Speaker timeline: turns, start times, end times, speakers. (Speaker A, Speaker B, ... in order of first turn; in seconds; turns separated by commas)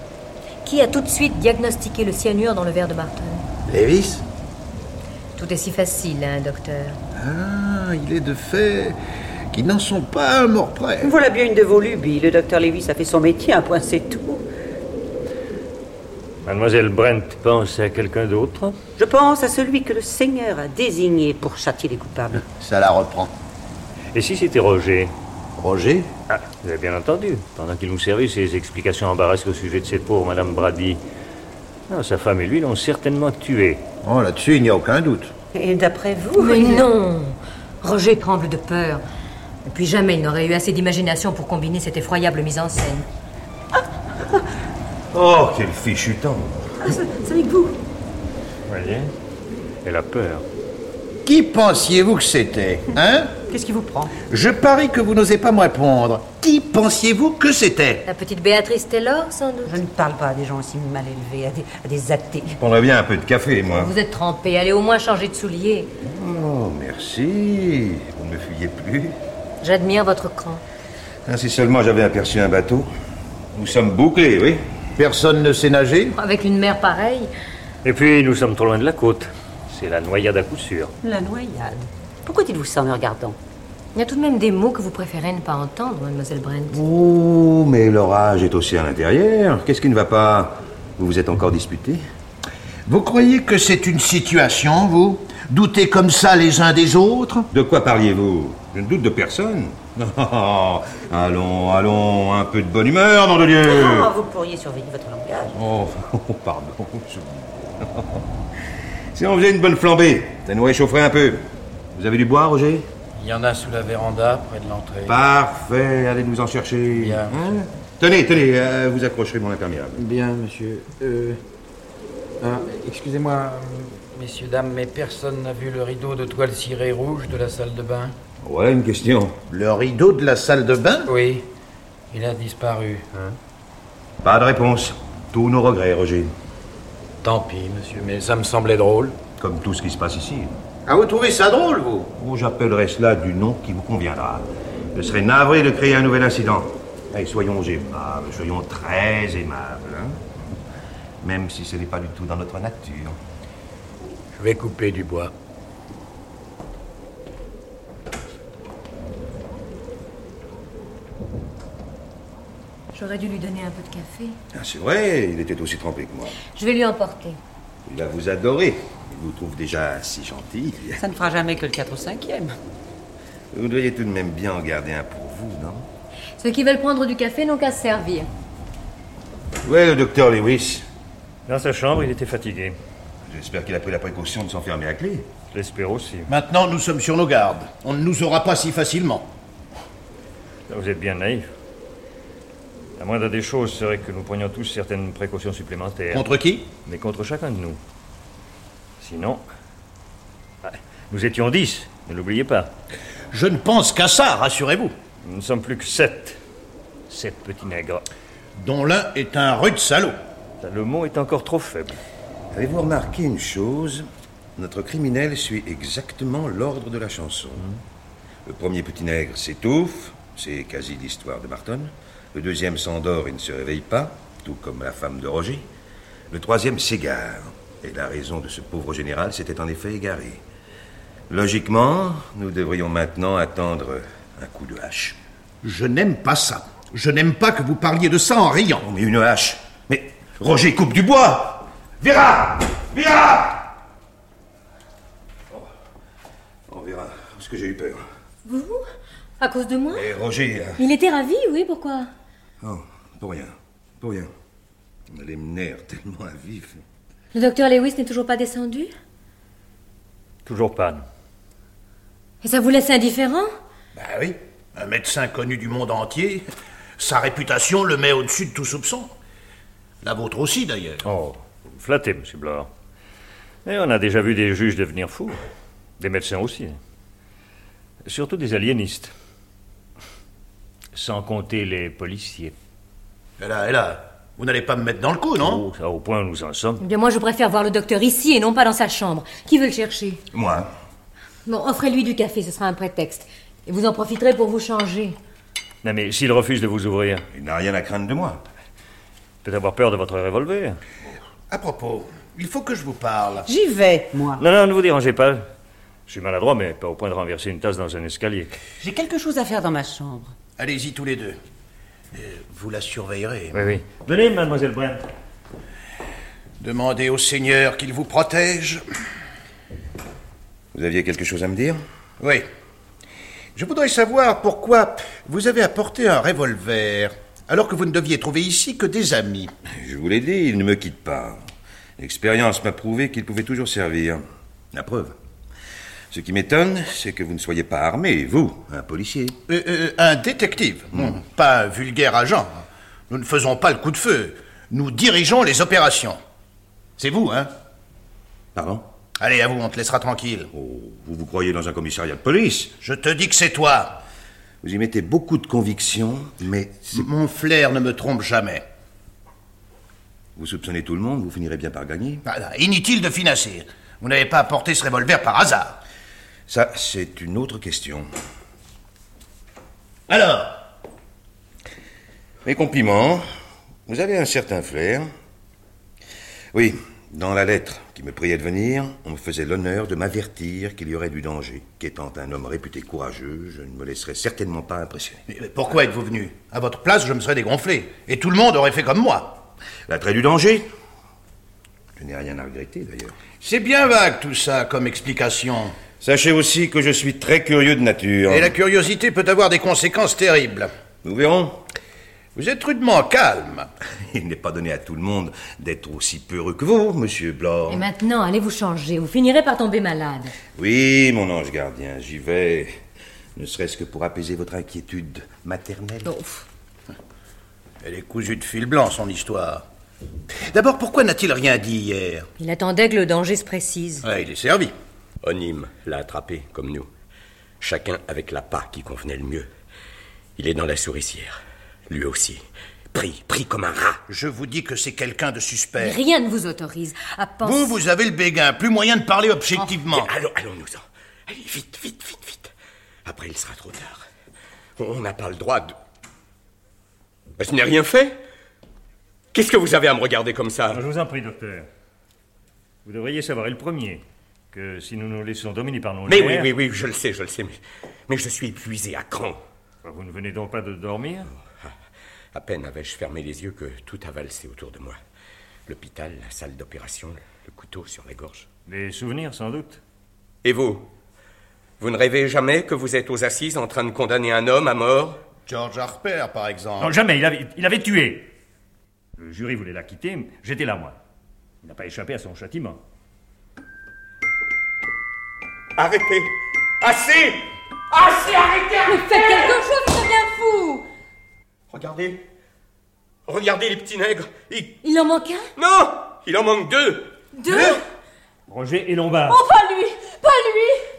Speaker A: 0.6-3.4, Speaker B: 3.6-4.2, Speaker A: 5.4-7.0, Speaker B: 7.1-9.0, Speaker B: 9.5-11.1, Speaker C: 11.0-14.4, Speaker D: 16.4-18.8, Speaker C: 19.0-22.4, Speaker B: 22.4-23.3, Speaker D: 24.1-25.1, Speaker B: 25.6-26.1, Speaker D: 26.3-31.0, Speaker D: 31.9-33.8, Speaker B: 34.0-35.3, Speaker C: 35.5-36.9, Speaker A: 36.4-39.0, Speaker A: 39.7-43.0, Speaker E: 45.1-46.5, Speaker C: 46.8-47.8, Speaker D: 48.7-49.1, Speaker D: 49.8-50.4, Speaker B: 51.2-53.4, Speaker C: 53.5-54.2, Speaker B: 54.2-58.0, Speaker A: 58.1-59.8, Speaker C: 59.6-62.6, Speaker E: 62.6-63.9, Speaker A: 63.6-65.9, Speaker E: 66.0-69.2, Speaker A: 69.6-70.6, Speaker E: 71.2-72.9, Speaker E: 73.5-74.7, Speaker B: 75.0-76.2, Speaker A: 76.2-77.3, Speaker D: 77.8-80.9, Speaker C: 81.0-83.4, Speaker A: 83.9-86.8, Speaker E: 86.7-92.0, Speaker B: 92.8-97.5, Speaker E: 97.5-104.1, Speaker C: 103.6-105.5, Speaker E: 105.5-108.2, Speaker E: 109.1-112.9, Speaker F: 113.2-115.2, Speaker E: 115.0-120.0, Speaker F: 116.9-117.6, Speaker F: 119.9-121.4, Speaker F: 122.4-128.1, Speaker E: 128.4-129.4, Speaker B: 129.5-131.1, Speaker F: 131.1-131.5, Speaker F: 132.1-133.4, Speaker E: 134.2-136.3, Speaker F: 137.2-139.2, Speaker E: 139.4-140.6, Speaker B: 140.8-142.1, Speaker E: 142.2-150.2, Speaker E: 151.2-153.2, Speaker F: 154.3-155.3, Speaker A: 162.9-164.3, Speaker E: 164.5-166.4, Speaker A: 166.5-167.4, Speaker E: 167.8-171.0, Speaker C: 170.9-172.6, Speaker E: 173.5-175.9, Speaker A: 176.4-178.3, Speaker E: 179.6-180.8, Speaker D: 181.5-182.8, Speaker E: 183.2-185.3, Speaker D: 185.5-186.3, Speaker B: 186.3-189.3, Speaker D: 190.7-191.5, Speaker D: 193.0-196.2, Speaker B: 196.1-196.7, Speaker D: 196.8-197.8, Speaker D: 199.0-199.4, Speaker D: 200.6-202.7, Speaker B: 203.3-204.9, Speaker D: 205.2-206.4, Speaker D: 207.1-208.1, Speaker B: 208.6-210.1, Speaker D: 210.6-212.0, Speaker E: 212.5-214.1, Speaker E: 214.6-217.7, Speaker E: 218.4-225.7, Speaker E: 226.3-230.4, Speaker E: 231.3-235.2, Speaker B: 235.6-238.8, Speaker E: 238.8-243.7, Speaker E: 246.7-248.0, Speaker A: 248.4-248.8, Speaker A: 249.4-250.1, Speaker E: 249.9-250.8, Speaker A: 250.8-252.1, Speaker E: 252.6-254.3, Speaker E: 255.1-256.8, Speaker A: 257.3-258.9, Speaker D: 260.4-261.1, Speaker A: 262.4-263.5, Speaker B: 263.9-266.4, Speaker B: 267.0-269.1, Speaker B: 270.0-271.1, Speaker D: 271.0-272.7, Speaker D: 273.6-275.4, Speaker D: 276.0-276.8, Speaker D: 278.0-279.1, Speaker D: 280.9-282.5, Speaker B: 283.4-285.6, Speaker D: 285.4-286.8, Speaker A: 286.8-290.2, Speaker E: 290.3-290.7, Speaker A: 291.4-295.2, Speaker D: 295.8-297.2, Speaker E: 297.3-298.4, Speaker D: 299.4-300.8, Speaker B: 301.5-303.5, Speaker C: 303.4-304.4, Speaker D: 304.4-305.5, Speaker D: 306.1-308.6, Speaker C: 308.8-310.3, Speaker B: 310.6-311.4, Speaker B: 312.1-313.8, Speaker D: 313.5-315.1, Speaker B: 316.6-318.8, Speaker E: 320.7-321.8, Speaker B: 322.2-322.5, Speaker B: 323.5-329.5, Speaker E: 329.8-331.4, Speaker E: 332.0-334.2, Speaker E: 334.7-335.1, Speaker E: 336.1-339.4, Speaker B: 339.5-346.2, Speaker B: 347.0-347.5, Speaker E: 348.5-348.9, Speaker B: 349.2-350.5, Speaker E: 350.5-352.7, Speaker B: 352.8-354.0, Speaker E: 354.6-357.0, Speaker B: 356.9-358.6, Speaker E: 360.4-362.2, Speaker B: 362.2-365.8, Speaker E: 366.5-368.1, Speaker B: 370.1-370.6, Speaker E: 372.4-373.2, Speaker E: 373.9-375.1, Speaker E: 376.5-385.2, Speaker B: 385.3-389.5, Speaker E: 389.9-390.7, Speaker E: 392.0-393.1, Speaker B: 393.4-395.8, Speaker E: 396.0-398.5, Speaker B: 398.3-400.7, Speaker E: 401.0-401.6, Speaker B: 402.3-403.7, Speaker E: 404.0-407.9, Speaker A: 407.7-410.3, Speaker E: 410.6-412.8, Speaker E: 413.4-416.1, Speaker A: 416.1-416.4, Speaker B: 417.8-419.7, Speaker B: 420.3-422.3, Speaker A: 422.4-424.1, Speaker B: 424.0-424.7, Speaker G: 425.2-426.9, Speaker G: 427.6-429.5, Speaker G: 430.4-434.0, Speaker B: 434.1-436.0, Speaker A: 435.8-437.7, Speaker B: 437.4-440.1, Speaker G: 439.8-442.5, Speaker G: 443.0-444.1, Speaker G: 444.8-445.8, Speaker G: 447.4-448.2, Speaker G: 449.3-450.8, Speaker D: 450.7-451.7, Speaker D: 452.8-456.5, Speaker G: 456.1-459.4, Speaker D: 459.8-461.3, Speaker G: 461.3-461.8, Speaker G: 462.3-465.0, Speaker G: 465.6-468.5, Speaker D: 468.7-469.8, Speaker G: 470.4-470.9, Speaker G: 471.8-475.2, Speaker B: 475.5-477.0, Speaker D: 476.8-478.3, Speaker D: 479.2-480.9, Speaker D: 481.6-482.8, Speaker G: 485.8-489.5, Speaker A: 488.8-490.9, Speaker G: 491.7-492.2, Speaker G: 493.2-494.8, Speaker A: 494.8-495.5, Speaker G: 495.6-497.1, Speaker A: 497.3-497.8, Speaker D: 498.5-499.4, Speaker A: 499.3-500.9